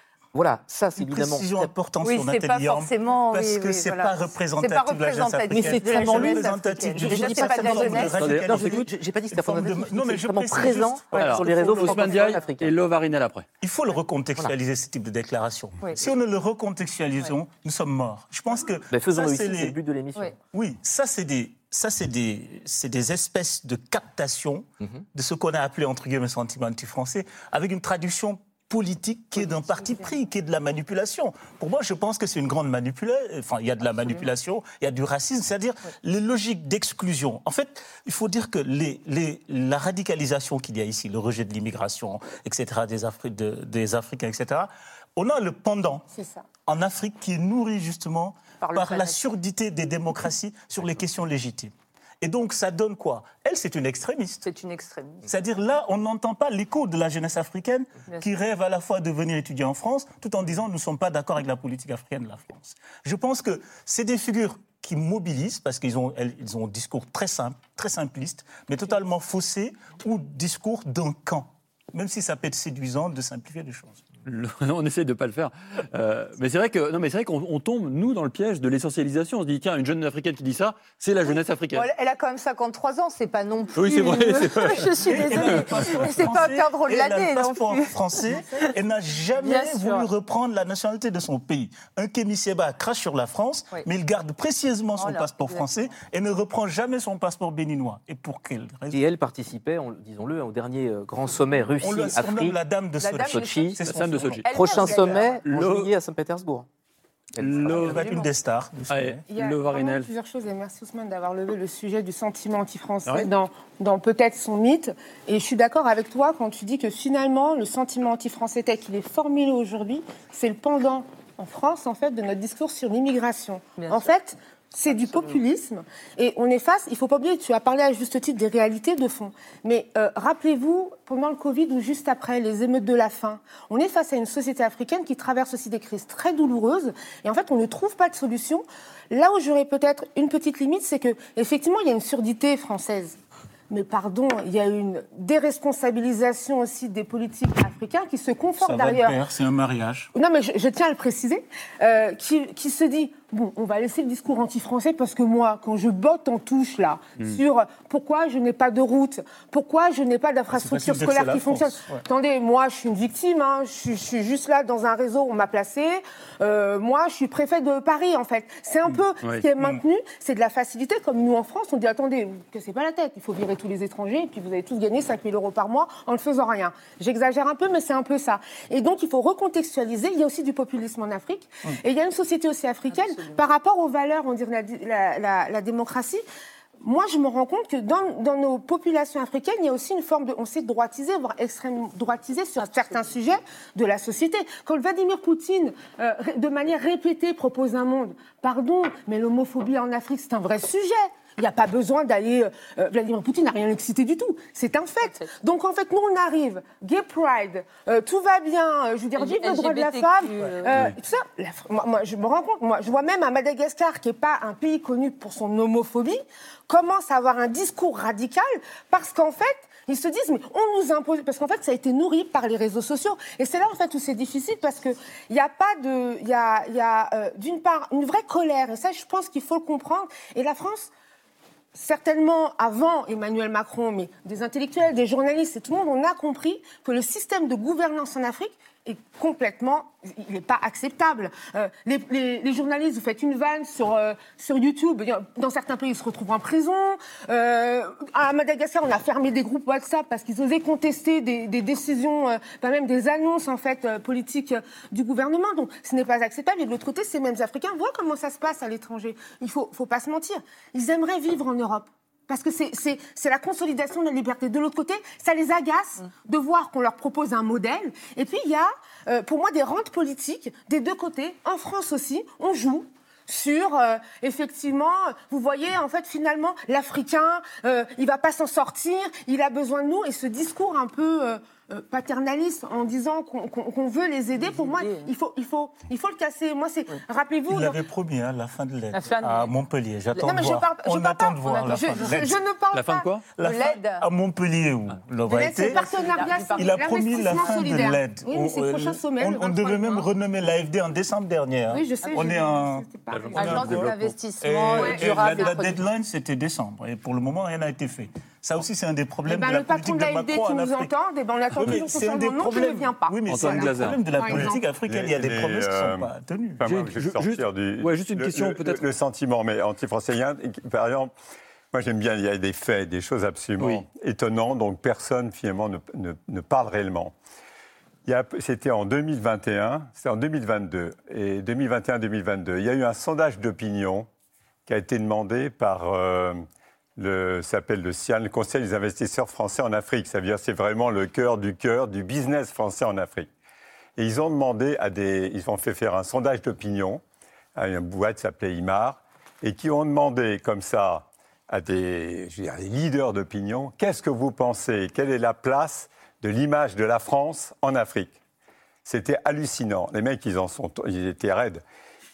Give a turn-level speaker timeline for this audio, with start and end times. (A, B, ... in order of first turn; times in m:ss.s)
0:00.3-0:01.7 A
0:01.0-0:12.2 B
0:02.0-0:08.1 C
0:05.5-0:12.7 A
0:08.2-0:08.8 D
0:11.2-0:13.5 D
0:13.6-0:19.8 B
0:18.9-0:20.4 A
0:20.5-0:46.1 B
0:29.4-0:30.1 C
0:46.1-0:46.4 E
0:46.6-0:54.4 B
0:48.6-0:49.3 C
0:54.4-0:55.3 C
0:55.2-1:14.0 B
1:14.2-1:21.9 D
1:21.7-1:28.7 C
1:23.8-1:26.0 D
1:25.0-1:39.0 B
1:29.4-1:30.1 C
1:35.0-1:35.7 C
1:38.9-1:42.6 A
1:41.8-1:45.3 B
1:43.0-1:43.8 C
1:43.2-1:43.8 A
1:43.8-1:44.4 D
1:44.4-1:45.4 C
1:44.5-1:46.7 A
1:45.4-1:45.9 D
1:47.4-1:48.0 A
1:47.4-1:48.0 D
1:47.8-1:49.2 B
1:47.9-1:48.3 E
1:48.9-1:50.1 D
1:49.3-2:23.2 E
1:53.0-1:53.3 D
2:03.8-2:04.1 C
2:04.9-2:05.4 C
2:23.7-2:29.2 E
2:28.6-2:30.1 B
2:30.1-3:06.2 E
2:40.5-2:42.0 B
3:02.9-3:03.4 C
3:06.8-3:50.9 E
3:12.6-3:13.1 C
3:25.0-3:25.3 C
3:29.2-3:30.8 C
3:51.7-4:47.8 E
4:44.4-4:45.1 C
4:47.5-4:52.4 B
4:48.9-4:49.5 C
4:50.2-4:53.1 E
4:52.7-4:53.2 D
4:53.3-4:55.8 B
4:53.4-4:54.0 C
4:55.3-5:00.1 E
4:55.6-4:58.0 C
4:56.5-5:10.9 B
5:01.7-5:03.6 E
5:03.1-5:04.2 D
5:03.3-5:05.8 C
5:04.8-5:05.5 E
5:09.3-5:14.6 E
5:11.5-5:16.6 B
5:13.3-5:14.0 D
5:14.9-5:21.1 F
5:16.6-5:18.8 D
5:21.7-5:27.1 F
5:23.6-5:23.8 D
5:28.0-5:34.1 F
5:34.7-5:36.4 F
5:37.0-5:43.3 F
5:44.0-5:47.0 F
5:47.6-5:58.2 F
5:58.8-6:01.6 F